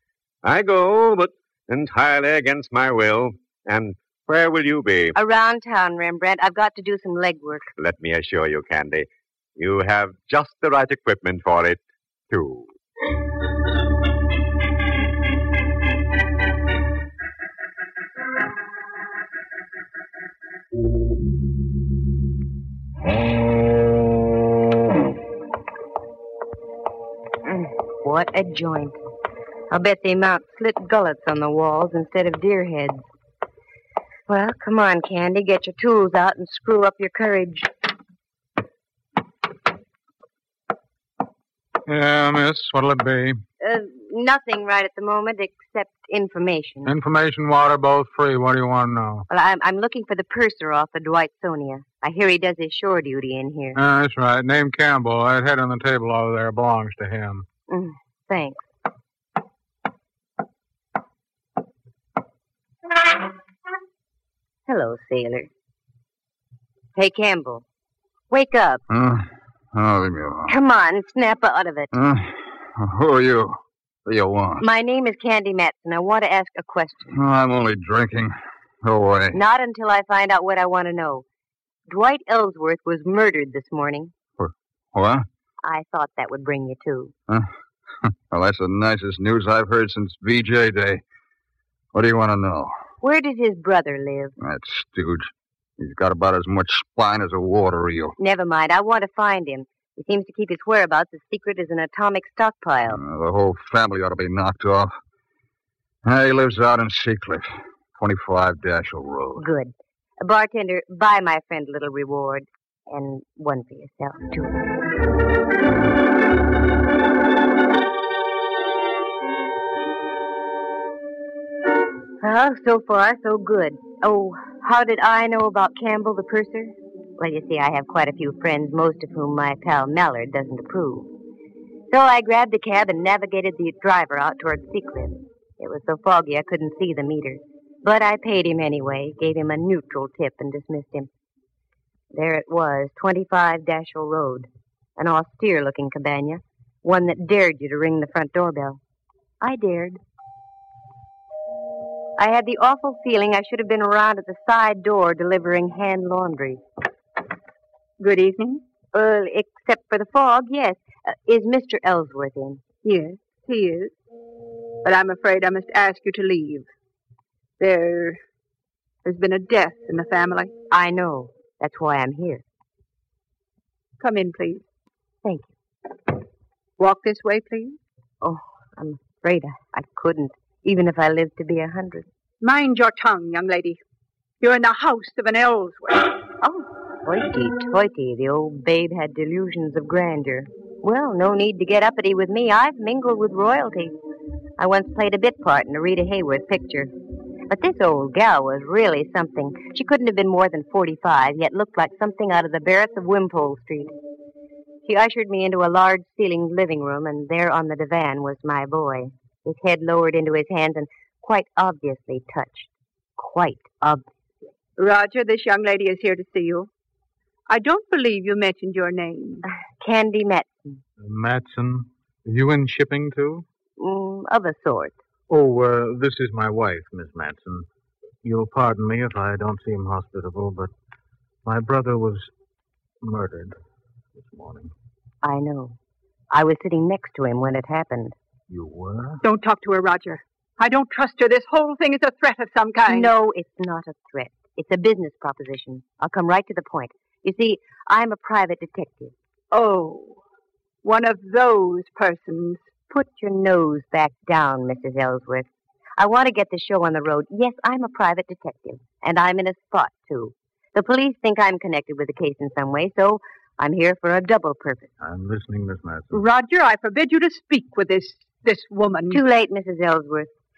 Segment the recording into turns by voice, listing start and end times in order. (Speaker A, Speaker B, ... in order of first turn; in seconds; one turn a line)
Speaker A: 0.4-5.1
Speaker B: 5.1-7.7
Speaker A: 7.8-12.7
Speaker B: 27.4-28.9
Speaker B: 29.7-33.0
Speaker B: 34.3-37.7
Speaker C: 41.9-43.4
Speaker B: 43.6-46.9
Speaker C: 46.8-49.2
Speaker B: 49.3-53.8
Speaker C: 53.8-57.4
Speaker B: 57.7-58.6
Speaker B: 64.7-65.5
Speaker B: 67.0-67.6
Speaker B: 68.3-68.8
Speaker D: 68.9-70.5
Speaker B: 70.5-71.9
Speaker D: 71.9-74.6
Speaker B: 74.6-77.1
Speaker D: 77.1-78.3
Speaker D: 78.8-79.3
Speaker B: 79.3-81.2
Speaker B: 81.9-84.1
Speaker D: 84.4-85.2
Speaker B: 85.6-87.1
Speaker D: 88.1-91.0
Speaker D: 91.9-92.7
Speaker B: 93.0-94.3
Speaker D: 94.4-98.2
Speaker B: 98.2-103.0
Speaker D: 102.9-104.9
Speaker D: 106.0-109.4
Speaker B: 109.4-114.5
Speaker B: 122.2-131.1
Speaker B: 131.9-141.1
Speaker B: 142.1-148.8
Speaker B: 149.4-150.0
Speaker B: 152.2-156.6
Speaker E: 158.0-158.6
Speaker B: 158.9-162.6
Speaker E: 162.8-163.9
Speaker E: 164.8-166.7
Speaker E: 167.6-168.2
Speaker E: 169.0-170.5
Speaker B: 170.7-172.4
Speaker E: 174.0-174.6
Speaker B: 175.2-175.5
Speaker E: 176.8-177.8
Speaker B: 178.2-182.1
Speaker E: 182.4-183.8
Speaker E: 184.4-186.0
Speaker B: 186.4-193.9
Speaker B: 194.6-196.9
Speaker B: 197.5-203.9
Speaker B: 204.8-214.0
Speaker E: 214.8-216.7
Speaker E: 217.5-219.4
Speaker B: 219.4-220.5
Speaker C: 221.0-223.4
Speaker B: 223.8-224.9
Speaker C: 225.3-227.7
Speaker C: 228.2-230.7
Speaker C: 231.4-232.3
Speaker C: 233.0-233.5
Speaker C: 234.2-234.7
Speaker B: 235.2-235.8
Speaker B: 236.3-238.1
Speaker C: 238.5-239.2
Speaker E: 239.2-243.1
Speaker B: 242.9-249.1
Speaker E: 249.5-250.2
Speaker E: 250.8-252.6
Speaker B: 252.9-255.4
Speaker B: 256.0-264.9
Speaker C: 265.0-266.2
Speaker E: 266.1-269.2
Speaker B: 269.1-270.3